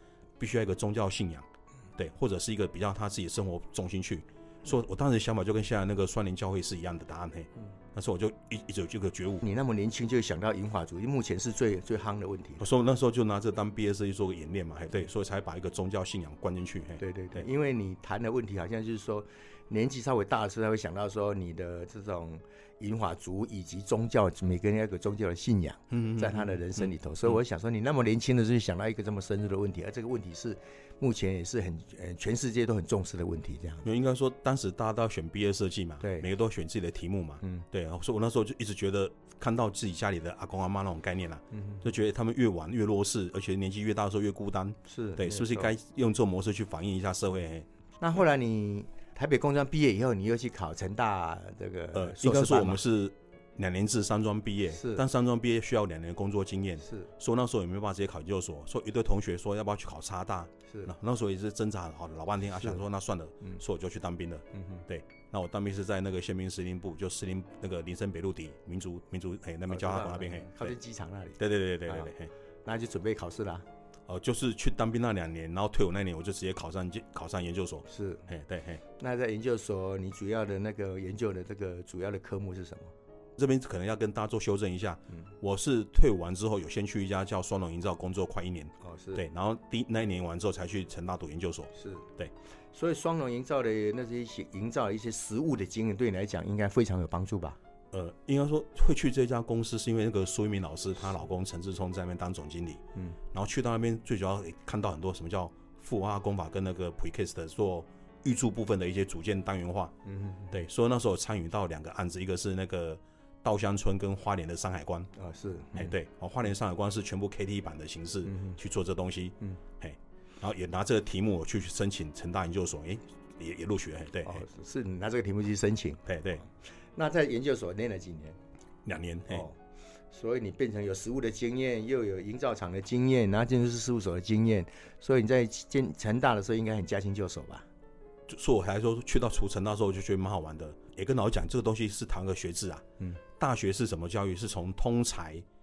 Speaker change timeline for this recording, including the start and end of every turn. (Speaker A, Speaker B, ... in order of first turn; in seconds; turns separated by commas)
Speaker A: 0.4-9.4, Speaker B: 9.4-12.7, Speaker A: 12.6-17.4, Speaker B: 17.0-33.9, Speaker A: 25.9-27.3, Speaker A: 33.8-47.7, Speaker B: 36.0-36.3, Speaker B: 41.5-41.8, Speaker B: 44.9-45.7, Speaker B: 48.0-52.8, Speaker A: 51.9-70.8, Speaker B: 54.7-55.0, Speaker B: 56.8-57.1, Speaker B: 60.7-60.9, Speaker B: 62.5-62.8, Speaker B: 64.5-64.8, Speaker B: 69.7-73.7, Speaker A: 71.4-72.3, Speaker A: 74.1-78.8, Speaker B: 77.9-78.3, Speaker B: 79.0-82.9, Speaker A: 83.4-92.3, Speaker B: 88.8-89.2, Speaker B: 91.7-92.1, Speaker B: 92.7-97.6, Speaker A: 97.9-109.9, Speaker B: 110.0-110.6, Speaker A: 110.5-115.1, Speaker B: 115.1-115.9, Speaker A: 115.7-124.4, Speaker B: 118.3-118.6, Speaker B: 124.2-128.4, Speaker A: 126.0-126.4, Speaker A: 128.8-129.5, Speaker B: 129.3-129.6, Speaker B: 130.1-137.7, Speaker A: 138.3-142.8, Speaker A: 143.4-145.4